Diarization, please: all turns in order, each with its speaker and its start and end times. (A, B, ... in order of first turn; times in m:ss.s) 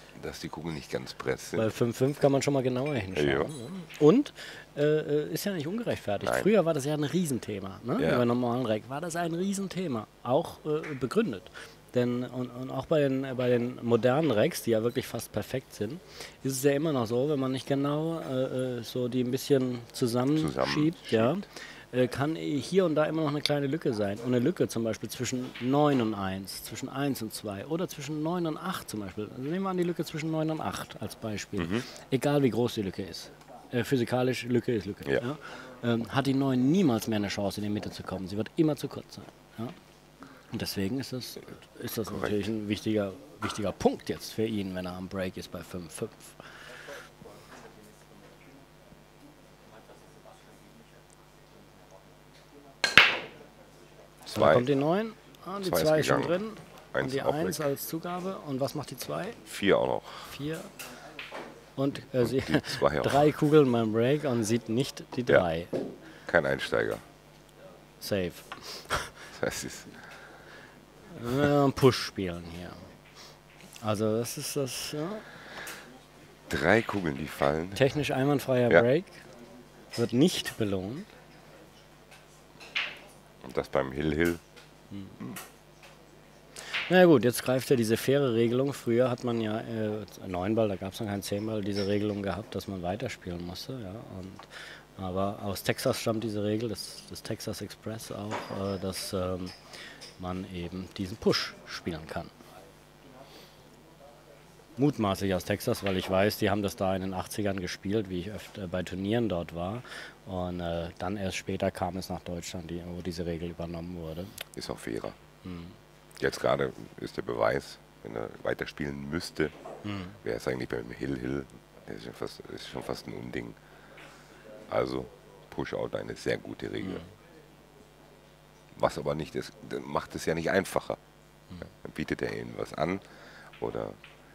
0:00.1-0:01.7 A
0:01.6-0:39.8 B
0:03.2-0:03.5 A
0:06.2-0:06.5 A
0:08.0-0:08.3 A
0:20.4-0:21.5 A
0:40.5-0:46.5 B
0:42.1-0:42.4 A
0:54.3-0:59.4 B
0:54.3-0:54.7 A
0:55.6-0:56.4 A
0:56.9-0:57.7 A
0:59.5-1:00.4 A
1:00.3-1:00.8 B
1:01.8-1:05.8 B
1:02.2-1:03.3 A
1:06.3-1:07.0 A
1:08.0-1:09.3 B
1:09.3-1:10.0 A
1:11.1-1:12.9 B
1:13.8-1:15.3 B
1:16.5-1:17.9 A
1:17.8-1:19.3 B
1:19.9-1:21.1 B
1:23.4-1:24.4 A
1:24.9-1:25.2 B
1:26.6-1:39.6 B
1:40.2-1:42.3 B
1:44.8-1:54.4 B
1:54.5-1:55.2 A
1:55.4-1:55.8 B
1:56.2-1:59.6 A
1:59.8-2:00.2 B
2:00.2-2:03.6 A
2:04.7-2:07.1 A
2:08.7-2:11.0 A
2:11.6-2:14.0 A